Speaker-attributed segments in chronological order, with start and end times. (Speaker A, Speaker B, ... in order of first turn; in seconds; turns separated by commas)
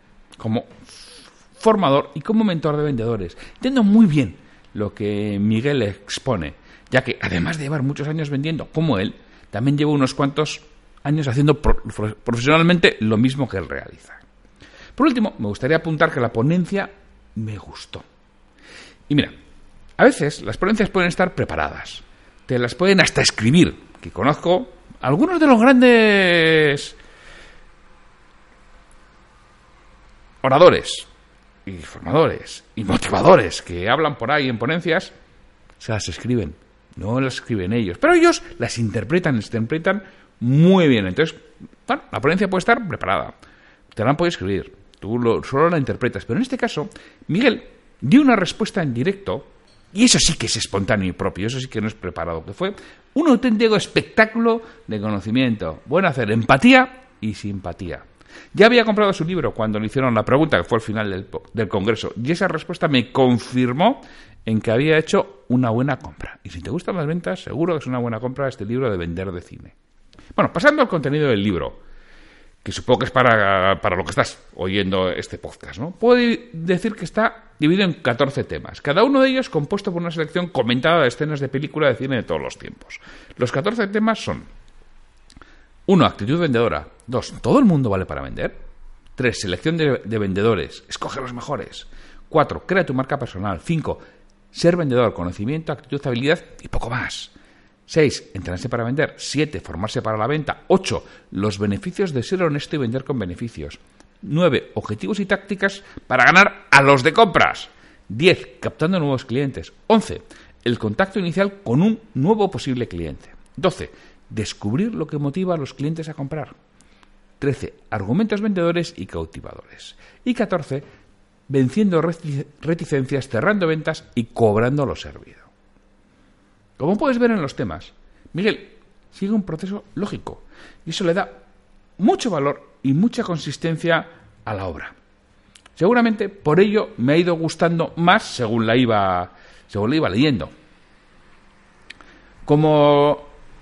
Speaker A: 0.4-14.2, Speaker A: 14.9-18.0, Speaker A: 19.1-19.3, Speaker A: 20.0-27.0, Speaker A: 30.4-31.1, Speaker A: 31.6-35.1, Speaker A: 35.8-43.3, Speaker A: 43.9-69.7, Speaker A: 70.3-71.8, Speaker A: 72.6-84.5, Speaker A: 85.9-88.6, Speaker A: 89.1-94.0, Speaker A: 94.5-97.3, Speaker A: 97.9-116.5, Speaker A: 117.4-120.8, Speaker A: 121.5-125.5, Speaker A: 126.8-131.4, Speaker A: 132.0-134.9, Speaker A: 135.8-140.5, Speaker A: 142.4-143.4